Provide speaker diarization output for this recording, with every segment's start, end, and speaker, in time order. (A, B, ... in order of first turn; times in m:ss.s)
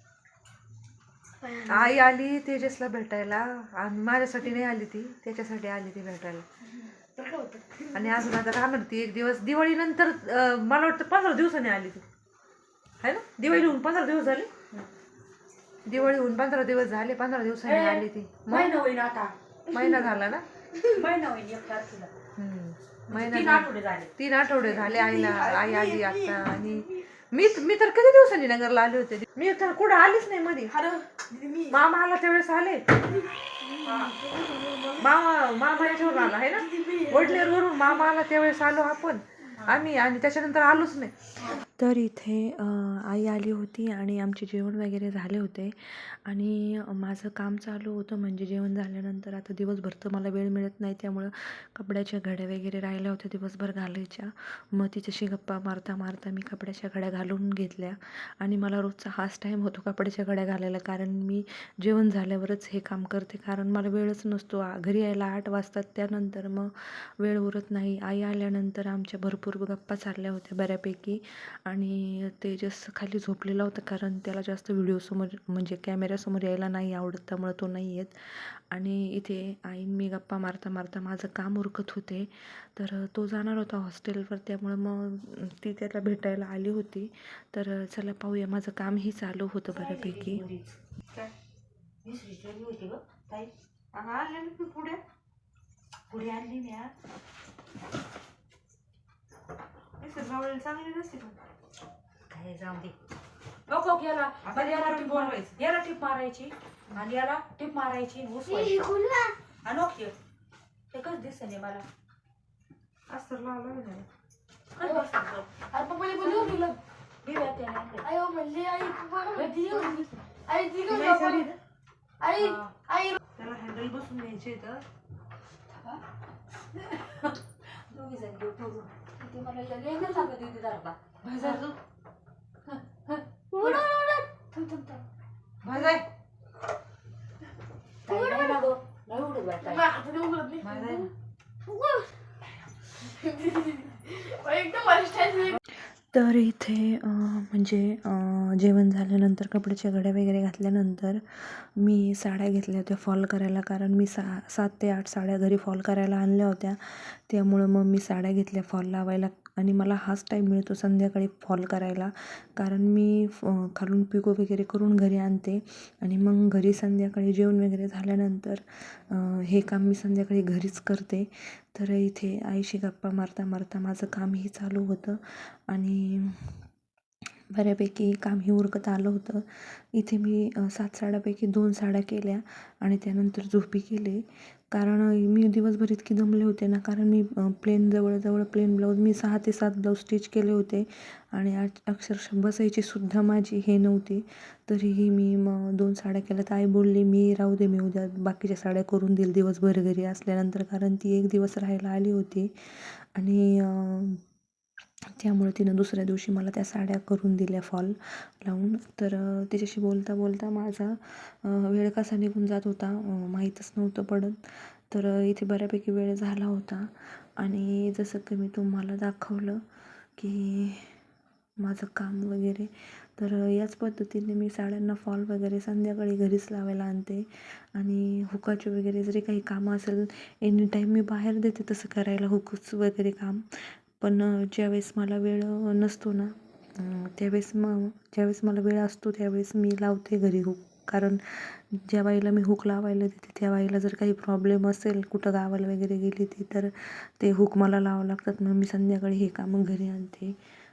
0:01.4-0:02.0 A
0:01.6-0:06.4 B
0:07.0-0:07.9 A
0:07.9-0:12.0 B
0:13.0-0:14.8 B
0:15.8-0:18.8 B
0:17.6-0:20.0 C
0:19.7-0:20.4 B
0:20.9-0:22.1 C
0:22.4-0:30.8 B
0:23.1-0:24.1 C
0:24.8-0:26.9 A
0:30.7-0:31.8 A
0:31.7-0:33.0 B
0:33.1-0:35.1 A
0:33.8-0:34.1 C
0:35.0-0:41.6 B
0:35.7-0:37.8 A
0:41.8-1:30.4 D
1:29.7-1:30.8 C
1:32.0-1:33.5 C
1:33.9-1:35.0 B
1:36.1-1:36.9 C
1:40.0-1:41.4 B
1:42.3-1:42.9 C
1:43.7-1:48.8 C
1:44.4-1:45.5 B
1:48.4-1:49.4 A
1:49.6-1:50.1 C
1:50.9-1:51.8 C
1:53.1-1:54.1 B
1:54.8-1:55.5 C
1:54.8-1:55.1 A
1:55.7-1:56.8 A
1:56.2-1:58.1 C
1:58.0-2:01.5 A
1:59.3-2:00.0 C
2:00.8-2:01.6 B
2:02.2-2:03.2 A
2:02.4-2:02.7 C
2:03.4-2:04.8 B
2:06.8-2:07.4 C
2:07.9-2:11.6 C
2:11.2-2:11.8 B
2:12.7-2:13.8 B
2:13.5-2:14.3 A
2:14.5-2:15.0 C
2:15.6-2:16.1 B
2:18.0-2:19.8 C
2:18.1-2:18.6 A
2:19.6-2:21.1 A
2:20.6-2:21.1 B
2:21.6-2:22.1 A
2:23.1-2:25.6 A
2:26.1-2:56.6 D
2:57.5-3:24.2 D
3:25.2-3:39.6 D
3:40.2-3:41.0 D
3:41.6-4:10.3 D